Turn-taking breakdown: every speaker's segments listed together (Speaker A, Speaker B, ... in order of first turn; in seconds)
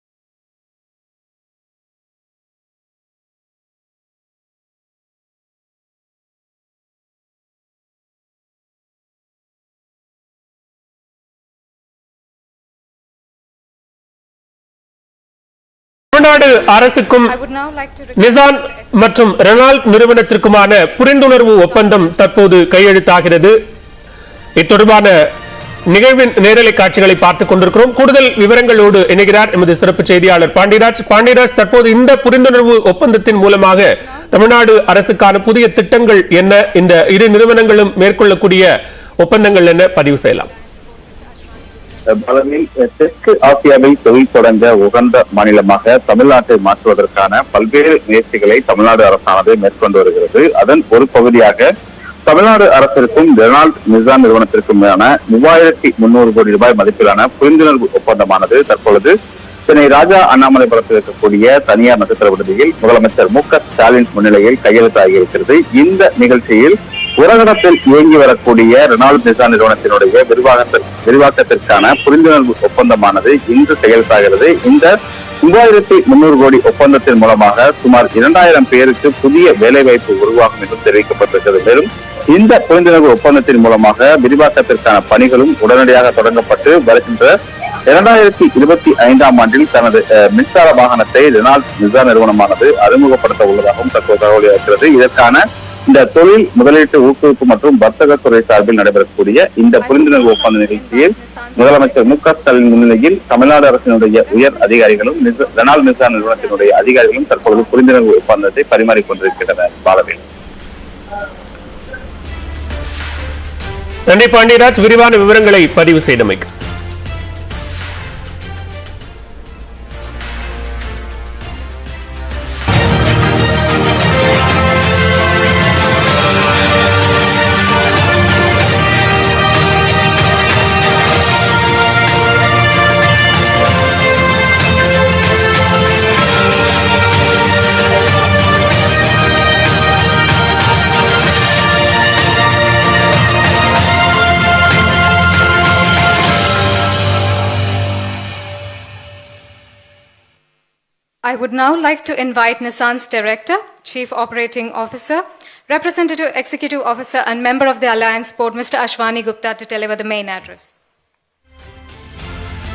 Speaker A: 16.1-17.3, 18.2-23.6, 24.6-25.1, 25.9-38.7, 39.2-40.5, 114.1-116.5
Speaker B: 17.2-22.2, 33.9-35.2, 40.3-42.1, 99.8-108.3, 151.2-160.7
Speaker C: 42.1-51.7, 52.3-59.1, 59.7-74.9, 75.4-87.3, 87.9-110.2